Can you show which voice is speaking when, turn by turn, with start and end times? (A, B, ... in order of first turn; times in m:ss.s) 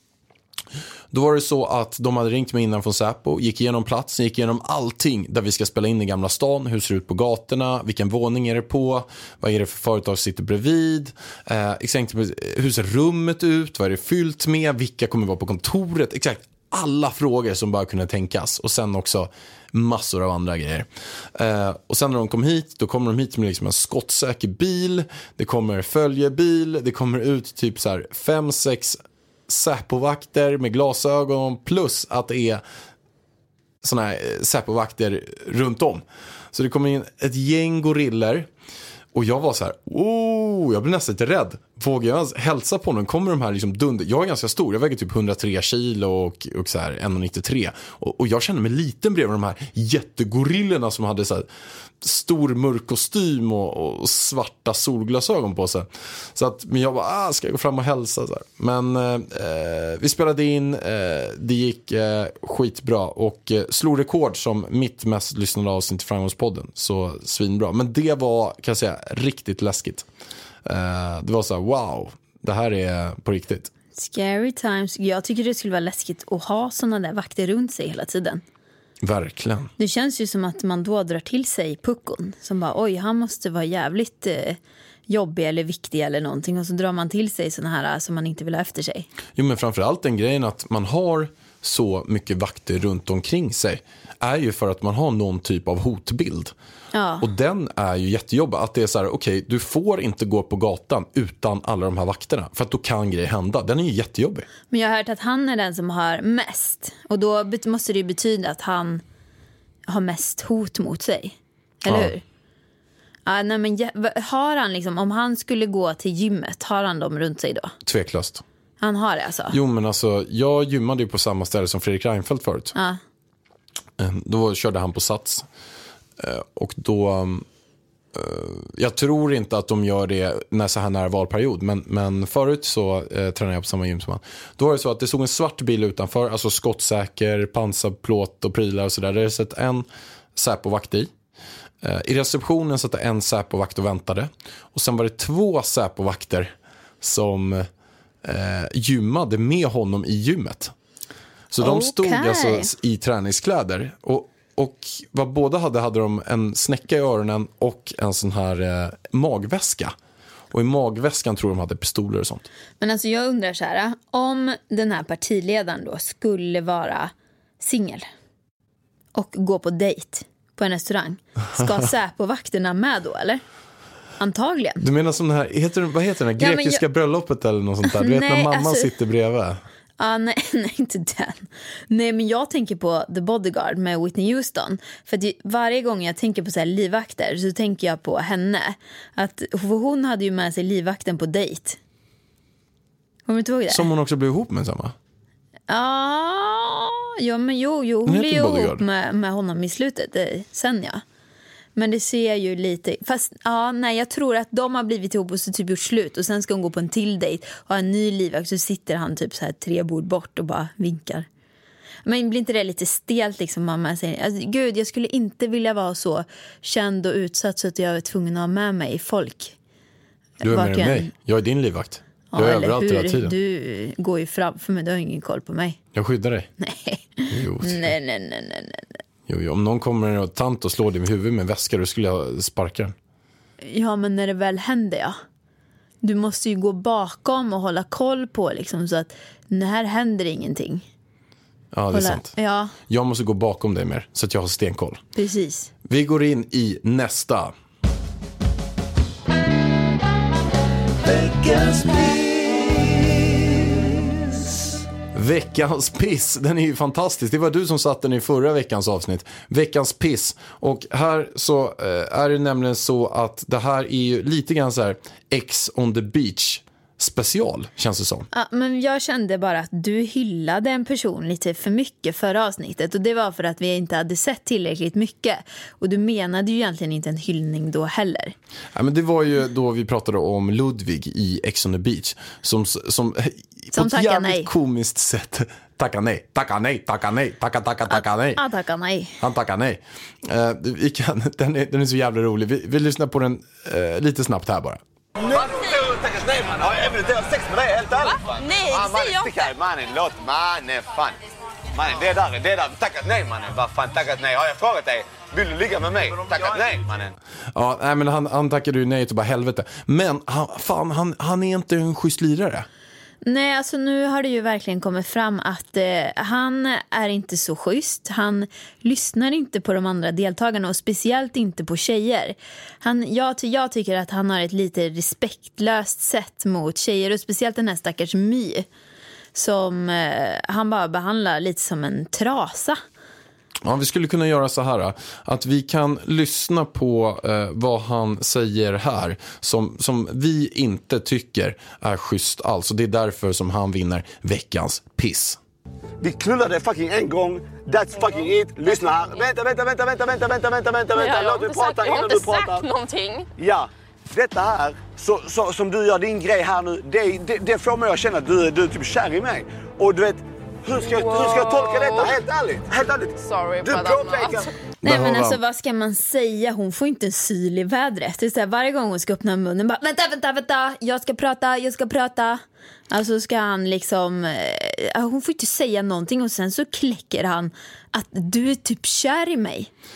0:01.1-0:32.6 A
0:33.8-0:38.5 A
0:39.1-0:51.5 A
0:52.0-1:10.0 A
1:10.6-1:13.7 A
1:14.0-1:18.4 B
1:19.0-1:19.7 A
1:19.8-1:29.1 B
1:29.4-1:36.5 A
1:36.9-1:37.2 B
1:37.2-1:44.5 A
1:44.7-1:49.0 B
1:49.9-1:52.2 B
1:51.9-1:52.1 A
1:53.2-1:57.7 B
1:57.8-1:58.4 A
1:58.8-1:59.6 B
1:59.5-2:02.7 A
2:02.7-2:03.0 B
2:04.0-2:05.5 A
2:06.2-2:07.4 A
2:08.1-2:21.1 A
2:21.8-2:27.7 A
2:28.2-2:30.7 A
2:31.5-2:39.9 A
2:31.6-2:32.7 B
2:40.5-2:42.5 A
2:42.8-2:48.0 B
2:49.1-2:53.4 B
2:54.2-2:54.8 B
2:54.8-2:59.6 A
2:56.4-2:56.8 B
2:57.8-2:58.9 B
3:00.0-3:11.8 B
3:13.2-3:13.9 B
3:13.7-3:14.9 A
3:15.7-3:21.0 B
3:18.0-3:18.8 A
3:21.8-3:31.3 B
3:32.0-3:39.6 B
3:40.4-3:41.1 B
3:40.4-3:43.3 A
3:42.3-3:45.8 B
3:45.9-3:46.5 A
3:46.6-3:48.8 B
3:47.3-3:47.9 A
3:49.3-3:52.9 A
3:53.6-3:55.2 B
3:56.0-4:00.8 B
4:01.7-4:05.0 A
4:01.9-4:02.7 B
4:05.2-4:05.7 B
4:05.8-4:07.5 A
4:11.0-4:14.7 C
4:15.1-4:28.3 A
4:28.3-4:38.3 B
4:38.7-4:48.4 A
4:43.7-4:44.5 B
4:47.9-4:49.2 B
4:49.2-4:54.8 A
4:55.2-5:01.2 D
4:58.4-4:59.5 B
5:01.7-5:07.1 D
5:07.5-5:12.7 A
5:13.2-5:28.6 B
5:29.3-5:32.8 B
5:33.6-5:45.4 A
5:46.0-5:52.7 D
5:50.9-5:53.3 E
5:53.4-6:04.5 D
6:00.8-6:02.2 E
6:03.2-6:04.5 E
6:04.8-6:05.4 A
6:04.8-6:19.7 B